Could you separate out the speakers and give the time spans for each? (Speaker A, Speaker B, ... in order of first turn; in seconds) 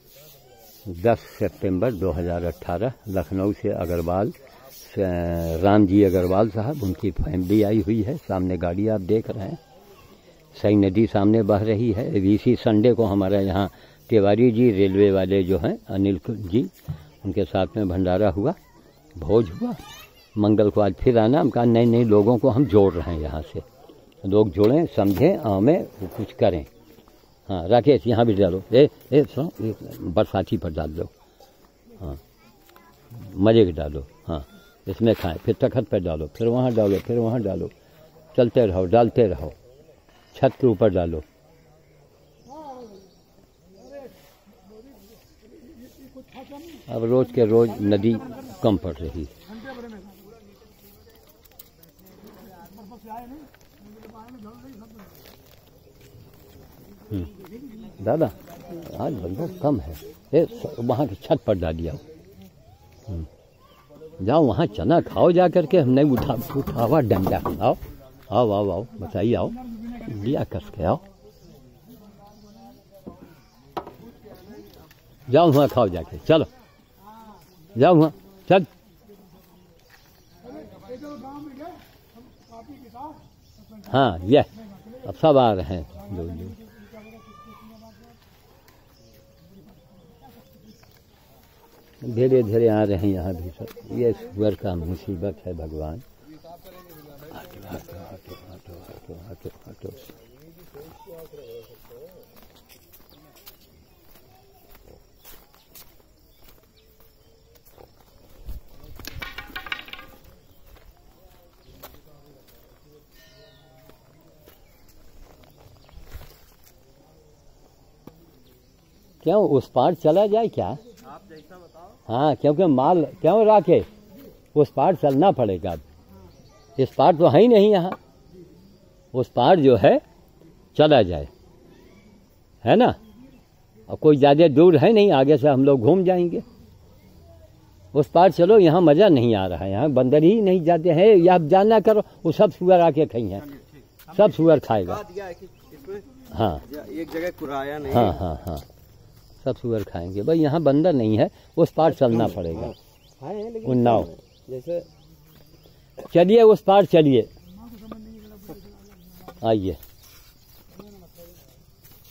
Speaker A: 0.9-9.6, 10.6-18.6, 19.2-19.8, 20.4-23.6, 24.2-26.7, 27.5-31.1, 33.1-37.7, 38.3-39.5, 40.3-41.2, 46.9-49.3, 58.0-62.0, 64.2-71.0, 75.3-76.5, 77.8-78.7, 83.8-86.6, 92.0-96.0, 97.3-100.0, 119.2-120.8, 122.1-123.9, 124.5-125.8, 126.8-128.0, 129.1-130.0, 130.8-131.3, 132.6-133.0, 133.9-136.4, 137.9-143.5, 144.1-145.1, 146.2-146.7, 147.8-148.7, 149.4-152.8, 153.6-154.1, 156.0-157.3, 159.4-159.8
Speaker B: 121.2-121.8, 145.0-146.1, 146.7-148.0, 153.2-154.9